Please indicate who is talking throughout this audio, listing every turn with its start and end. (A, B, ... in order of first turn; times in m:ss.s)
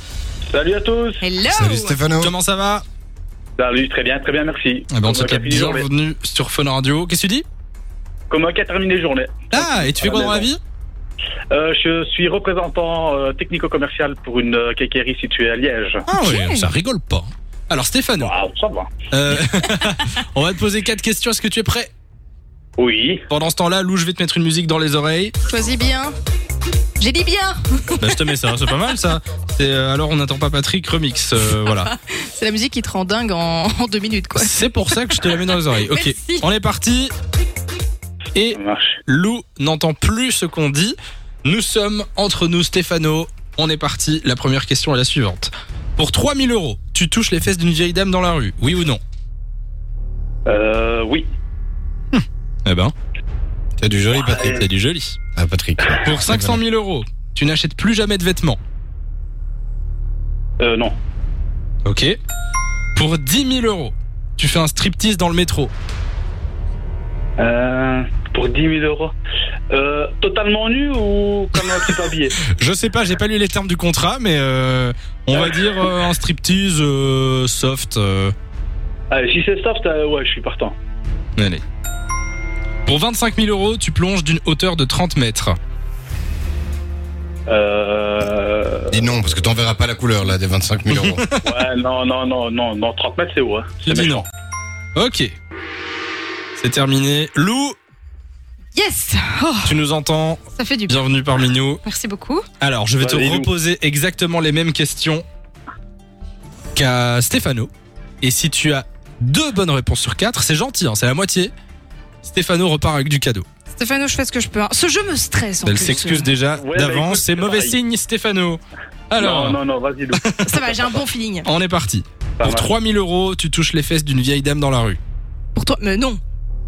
0:00.5-0:01.2 A
0:01.2-0:02.0 B
0:01.5-0:02.4 C
0:02.2-0:02.8 D
0:03.6-0:05.9 A
0:04.9-0:07.4 D
0:08.3-0:10.5 A
0:09.5-0:10.6 D
0:11.5-0:16.0 A
0:16.1-0:18.3 D
0:16.2-0:16.7 B
0:18.2-0:18.9 A
0:19.1-0:21.9 D
0:22.8-0:23.2 A
0:23.3-0:25.3 D
0:25.5-0:26.2 B
0:27.0-0:28.2 B
0:28.0-0:31.9 D
0:31.4-0:36.5 B
0:34.4-0:37.1 D
0:38.4-0:49.0 D
0:38.5-0:39.0 A
0:50.5-0:51.3 A
0:52.1-0:52.9 D
0:53.8-0:54.6 C
0:54.2-0:54.6 A
0:54.4-0:55.2 D
0:55.4-0:56.6 C
0:56.0-0:58.6 D
1:00.6-1:01.0 A
1:01.8-1:02.2 D
1:03.0-1:05.7 D
1:07.4-1:09.1 A
1:09.7-1:12.4 A
1:12.5-1:18.3 D
1:15.3-1:16.0 A
1:19.1-1:20.8 A
1:21.4-1:21.6 D
1:22.9-1:25.6 D
1:27.5-1:29.2 A
1:28.9-1:31.2 C
1:30.9-1:31.4 D
1:31.4-1:34.3 A
1:33.8-1:34.2 D
1:35.0-1:35.3 D
1:36.6-1:37.8 D
1:38.8-1:39.8 B
1:39.6-1:41.8 D
1:40.6-1:41.0 B
1:41.8-1:42.5 B
1:42.6-1:45.2 D
1:43.0-1:43.5 A
1:46.8-1:47.7 D
1:48.2-1:51.5 D
1:52.2-1:53.5 D
1:53.8-1:56.3 B
1:55.6-1:59.6 D
1:56.6-1:57.8 A
1:59.2-2:00.2 A
2:00.2-2:00.8 D
2:00.4-2:01.5 B
2:01.4-2:05.0 D
2:02.4-2:02.7 A
2:05.6-2:06.2 B